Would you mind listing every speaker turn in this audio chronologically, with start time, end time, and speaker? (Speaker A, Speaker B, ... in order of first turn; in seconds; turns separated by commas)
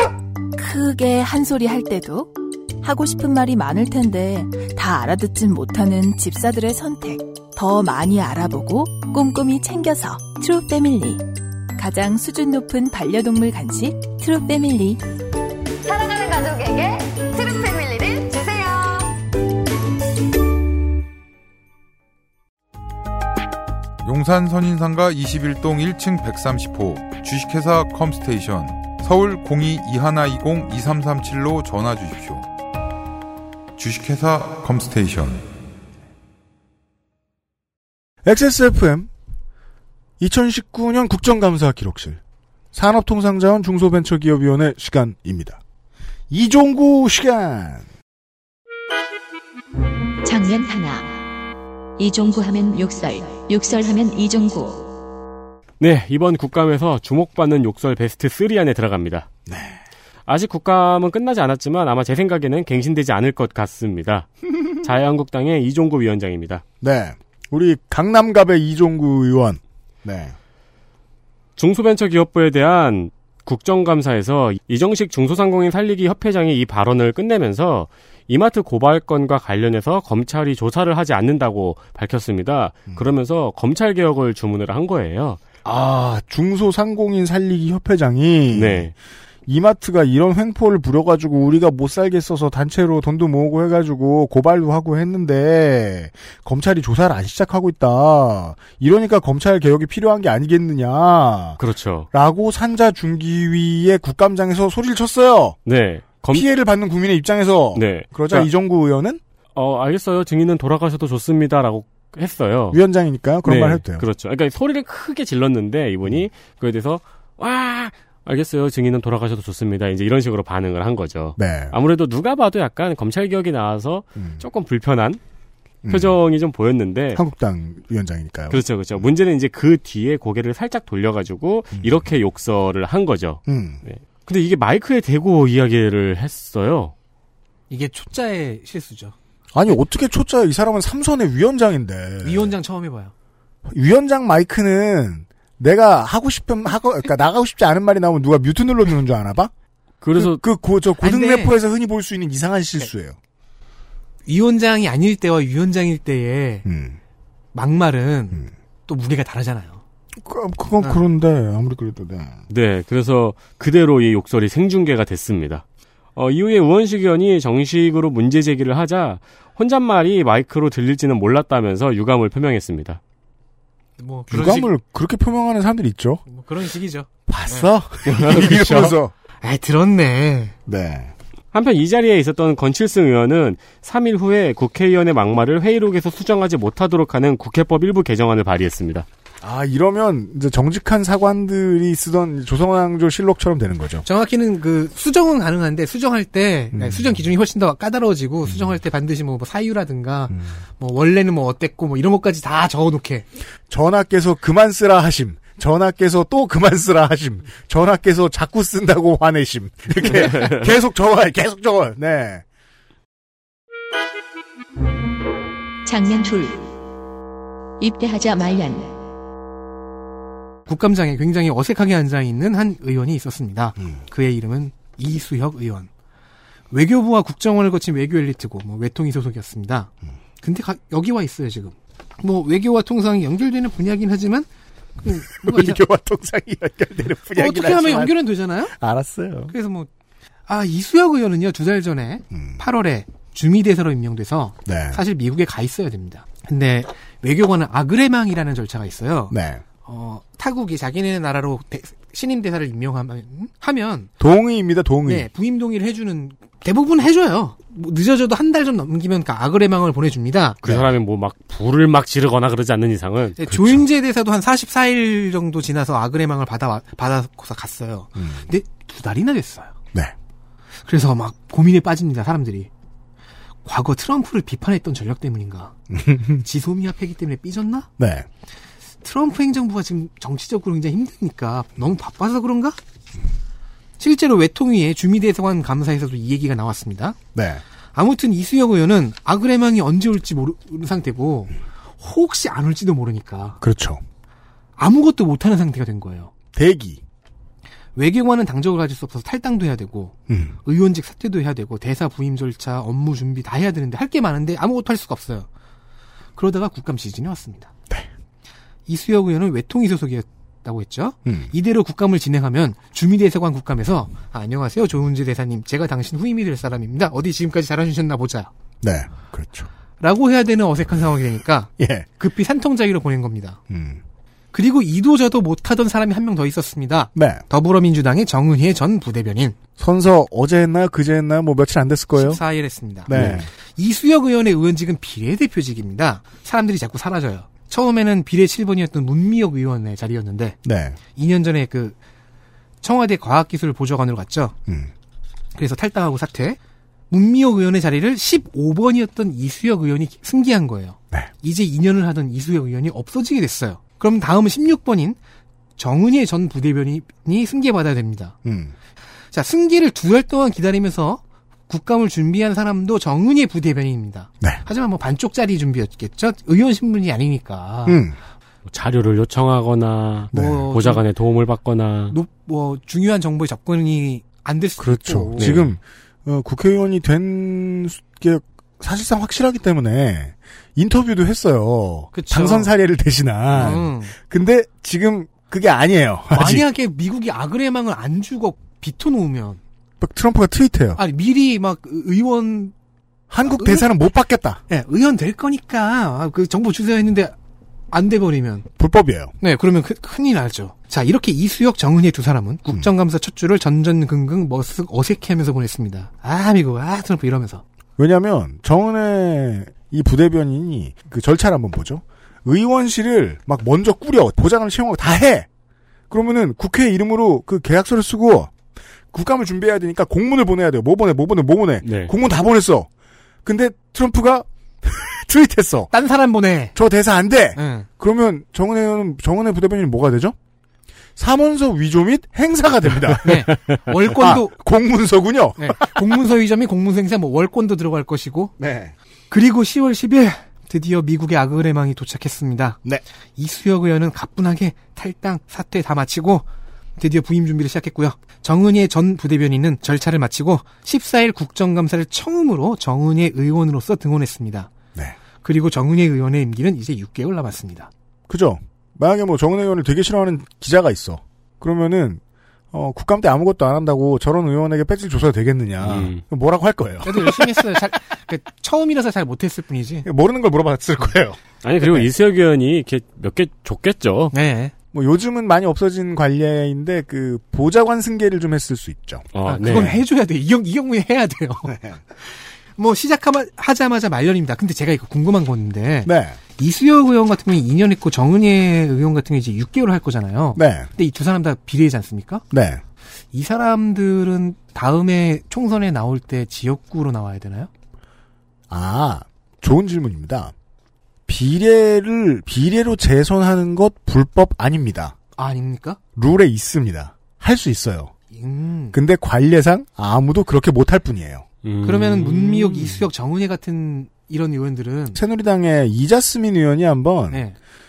Speaker A: 0.6-11.2, Speaker A: 11.8-15.0, Speaker B: 15.8-19.2, Speaker C: 24.0-32.5, Speaker C: 33.8-35.5, Speaker D: 38.2-39.1, Speaker D: 40.2-42.2, Speaker D: 42.7-45.6, Speaker D: 46.3-47.9, Speaker E: 50.2-51.2, Speaker E: 52.0-54.9, Speaker F: 55.8-59.3, Speaker D: 59.5-59.8, Speaker F: 60.3-66.6, Speaker D: 66.8-70.3, Speaker F: 71.6-85.4, Speaker D: 85.6-88.9, Speaker F: 88.5-88.9, Speaker D: 89.5-101.6, Speaker F: 101.6-102.1, Speaker D: 102.1-105.6, Speaker F: 105.7-106.5, Speaker D: 106.3-109.2, Speaker F: 107.7-108.5, Speaker F: 109.5-112.8, Speaker D: 112.7-114.1, Speaker F: 113.4-125.2, Speaker D: 121.4-121.7, Speaker D: 124.2-124.4, Speaker D: 125.8-126.2, Speaker F: 125.9-127.2, Speaker D: 127.1-129.0, Speaker F: 128.5-136.9, Speaker D: 131.8-132.1, Speaker D: 133.5-133.8, Speaker G: 137.7-139.1, Speaker D: 139.5-142.5, Speaker G: 142.2-143.1, Speaker D: 143.7-149.5, Speaker F: 150.0-150.4, Speaker D: 150.1-153.2, Speaker G: 151.0-151.5, Speaker G: 154.3-156.7, Speaker D: 156.7-157.0, Speaker G: 157.5-159.8, Speaker D: 160.2-162.4, Speaker F: 162.5-165.6, Speaker F: 166.2-173.0, Speaker G: 174.0-174.7, Speaker D: 174.3-176.2, Speaker G: 176.2-177.7, Speaker D: 177.3-179.1, Speaker F: 178.1-179.0, Speaker G: 179.4-180.5, Speaker D: 180.7-181.1, Speaker F: 181.5-189.1, Speaker D: 189.4-194.0, Speaker G: 194.0-203.3, Speaker D: 196.7-197.2, Speaker D: 203.7-212.4, Speaker E: 215.8-216.6, Speaker E: 217.8-218.9, Speaker G: 220.7-225.9, Speaker G: 226.7-229.9, Speaker G: 230.4-234.5, Speaker G: 235.0-235.8, Speaker D: 235.3-238.2, Speaker G: 237.3-238.7, Speaker D: 238.7-239.5, Speaker G: 239.5-239.9, Speaker G: 240.5-254.1, Speaker D: 242.3-242.6, Speaker D: 244.6-245.0, Speaker D: 249.3-249.6, Speaker D: 254.2-255.3, Speaker G: 255.1-260.6, Speaker F: 260.6-263.4, Speaker D: 260.6-260.9, Speaker G: 263.4-269.7, Speaker D: 263.5-263.8, Speaker D: 268.2-268.5, Speaker G: 270.9-272.7, Speaker G: 273.6-275.7, Speaker D: 275.9-276.4, Speaker G: 276.4-277.9, Speaker D: 278.0-278.3, Speaker G: 279.0-282.8, Speaker G: 284.0-287.2, Speaker D: 287.3-287.6, Speaker G: 287.9-293.6, Speaker D: 293.6-294.0, Speaker G: 294.8-296.3, Speaker D: 296.5-297.0, Speaker G: 297.9-305.5, Speaker D: 300.3-300.6, Speaker G: 306.4-307.7, Speaker G: 308.9-318.5, Speaker D: 311.2-311.5, Speaker D: 318.8-319.7, Speaker G: 320.0-323.6, Speaker D: 321.8-322.1, Speaker D: 323.7-324.0, Speaker G: 324.5-329.6, Speaker D: 327.1-327.4, Speaker D: 329.8-332.4, Speaker G: 332.1-340.6, Speaker D: 333.1-333.5, Speaker F: 333.1-333.4, Speaker D: 340.6-341.0, Speaker G: 341.1-341.9, Speaker G: 342.8-344.5, Speaker G: 345.6-346.6, Speaker G: 347.1-355.2, Speaker G: 355.8-358.4, Speaker D: 358.4-358.7, Speaker G: 359.3-368.0, Speaker D: 367.9-368.1, Speaker F: 368.7-372.1, Speaker D: 370.3-370.7, Speaker G: 370.3-371.0, Speaker G: 372.1-375.6, Speaker D: 374.8-386.6, Speaker F: 375.4-375.6, Speaker G: 382.1-382.7, Speaker G: 383.5-384.1, Speaker G: 386.3-389.6, Speaker D: 390.0-391.0, Speaker G: 391.0-392.7, Speaker D: 393.3-394.6, Speaker G: 393.4-393.9, Speaker G: 394.7-397.3, Speaker G: 397.9-398.7, Speaker D: 398.8-399.3, Speaker G: 399.4-407.6, Speaker D: 408.0-415.5, Speaker D: 416.1-418.5, Speaker D: 419.1-422.9, Speaker F: 421.8-422.1, Speaker D: 423.4-425.9, Speaker G: 425.9-426.7, Speaker D: 426.7-430.4, Speaker G: 427.6-427.9, Speaker D: 431.1-433.5, Speaker G: 433.2-434.5, Speaker D: 434.1-436.1, Speaker G: 435.6-438.5, Speaker D: 438.6-438.9, Speaker G: 439.3-442.8, Speaker G: 443.4-446.4, Speaker G: 447.0-454.7, Speaker G: 455.4-457.9, Speaker D: 458.3-462.2, Speaker D: 462.7-467.6, Speaker F: 465.8-466.2, Speaker G: 467.0-470.1, Speaker D: 470.0-472.1, Speaker F: 471.6-474.3, Speaker G: 474.3-474.7, Speaker D: 474.9-479.3, Speaker F: 479.3-480.0, Speaker G: 479.4-492.4, Speaker D: 481.7-482.0, Speaker D: 486.0-486.4, Speaker D: 490.6-490.9, Speaker D: 492.5-492.8, Speaker G: 493.3-497.7, Speaker D: 498.7-500.5, Speaker D: 501.3-505.1, Speaker G: 505.4-506.0, Speaker D: 506.1-508.1, Speaker G: 508.3-509.0, Speaker D: 508.9-511.4, Speaker F: 511.6-513.0, Speaker G: 511.8-515.2, Speaker D: 515.1-517.4, Speaker G: 517.3-517.5